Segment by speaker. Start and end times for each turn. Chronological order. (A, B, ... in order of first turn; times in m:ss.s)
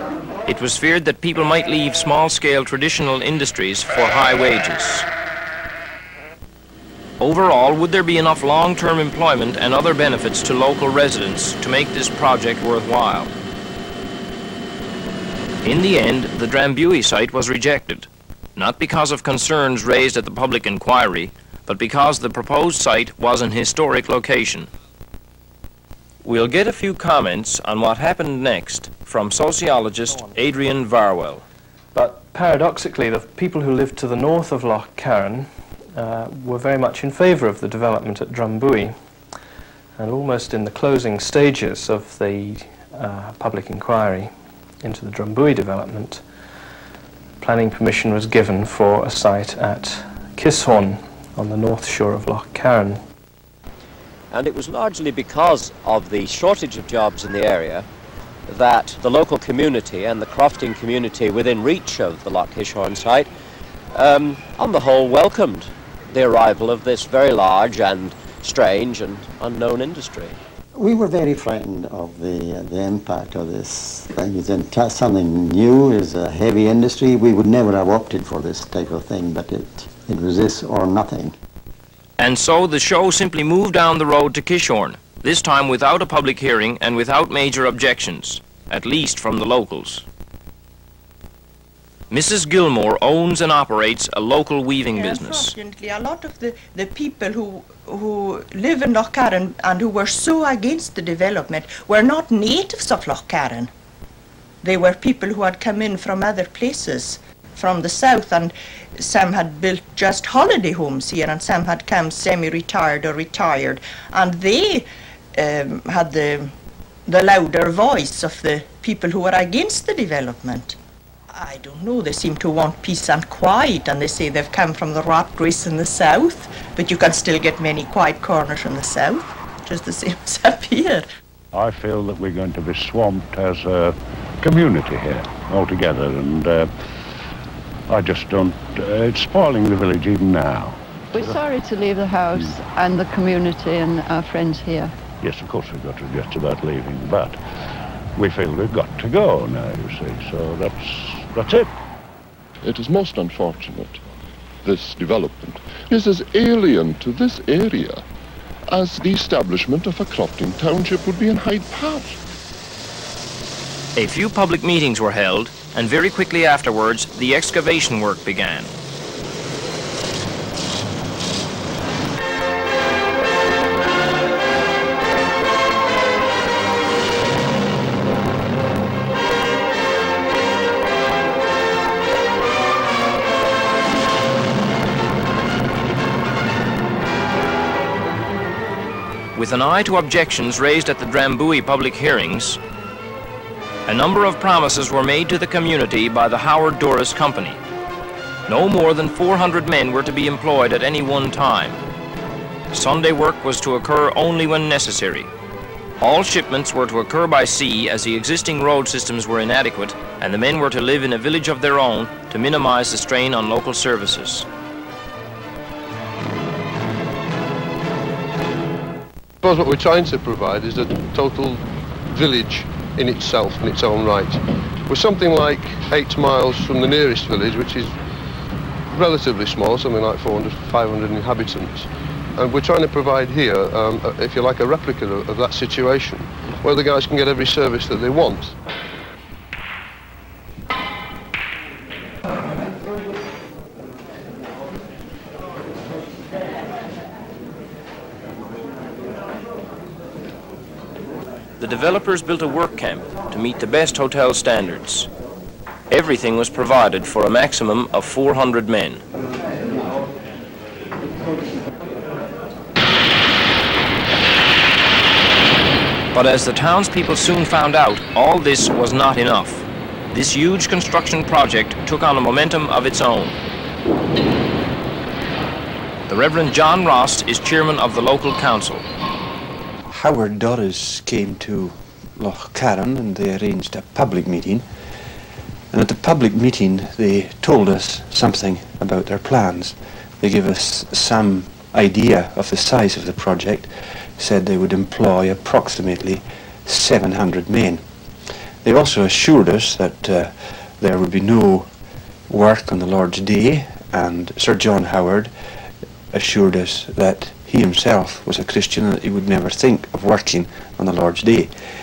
0:00.5-0:05.1 A
0:07.2-0:13.3 A
0:15.6-0:24.7 A
0:26.2-0:31.4 A
0:31.9-0:38.9 B
0:40.0-0:44.3 B
0:44.8-0:46.2 B
0:47.4-0:53.0 B
0:54.3-0:57.8 C
0:58.5-1:03.3 C
1:03.9-1:10.4 C
1:10.7-1:21.3 D
1:22.2-1:30.0 A
1:32.1-1:35.5 A
1:34.9-1:43.7 E
1:44.6-1:54.8 E
1:55.4-1:56.5 E
1:57.1-2:00.7 E
2:01.4-2:11.0 E
2:11.5-2:16.7 F
2:17.9-2:21.4 F
2:21.1-2:24.9 G
2:25.2-2:27.4 F
2:28.2-2:31.7 F
2:32.6-2:34.0 H
2:34.6-2:38.0 H
2:38.7-2:42.2 H
2:44.0-2:48.7 A
3:09.3-3:12.6 A
3:13.8-3:17.6 A
3:18.5-3:21.8 A
3:22.7-3:25.3 A
3:26.0-3:34.5 A
3:39.4-3:48.0 I
3:48.9-3:58.6 I
4:11.6-4:15.1 A
4:15.9-4:19.0 A
4:26.1-4:33.4 A
4:36.1-4:38.8 A
4:39.9-4:44.6 J
4:45.7-4:57.8 J
4:58.6-5:01.7 J
5:02.3-5:05.3 J
5:06.1-5:11.5 J